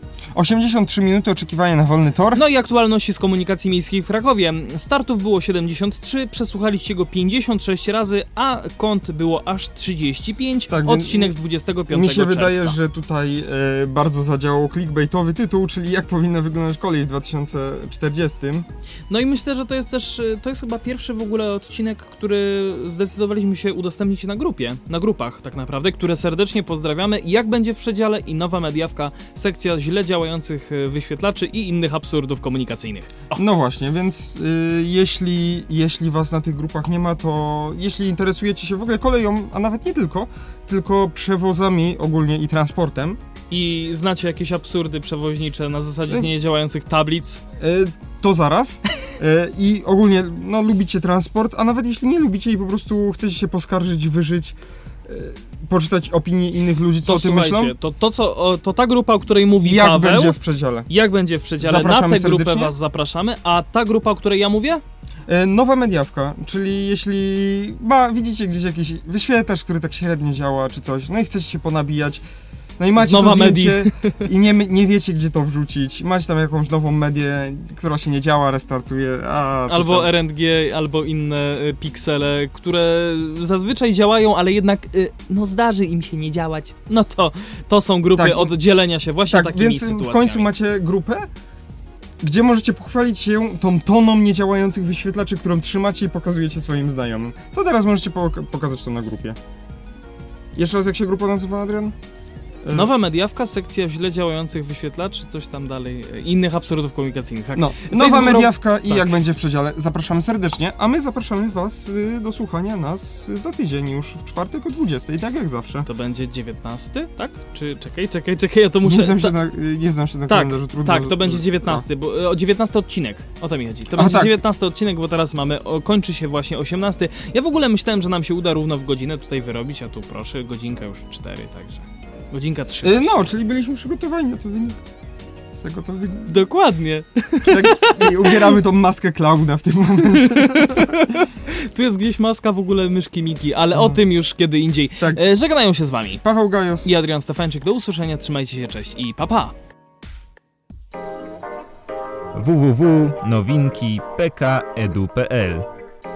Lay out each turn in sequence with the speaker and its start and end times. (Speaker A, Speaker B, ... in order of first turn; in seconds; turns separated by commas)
Speaker A: 0.3-2.4, Speaker B: 2.3-12.8, Speaker A: 10.7-11.3, Speaker A: 11.9-18.6, Speaker B: 19.1-33.4, Speaker A: 33.3-43.2, Speaker B: 43.5-47.4, Speaker A: 47.6-57.7, Speaker B: 57.0-60.4, Speaker A: 59.6-60.9, Speaker B: 60.9-64.8, Speaker A: 61.6-62.7, Speaker A: 65.3-72.2, Speaker A: 72.8-80.1, Speaker B: 73.0-74.2, Speaker B: 79.7-90.5, Speaker A: 88.2-88.5, Speaker A: 89.3-91.3, Speaker A: 92.2-99.4, Speaker A: 100.5-101.9, Speaker A: 102.6-102.9, Speaker B: 102.7-109.1, Speaker A: 107.5-115.9, Speaker B: 115.8-119.3, Speaker A: 118.8-121.8, Speaker B: 120.3-133.3, Speaker A: 124.0-124.4, Speaker A: 132.8-134.8, Speaker A: 135.5-136.3, Speaker B: 136.2-138.6, Speaker A: 137.4-141.0, Speaker B: 140.1-146.2, Speaker A: 143.7-144.0, Speaker A: 145.0-145.2, Speaker A: 146.2-146.9, Speaker B: 146.8-149.5, Speaker C: 152.3-155.7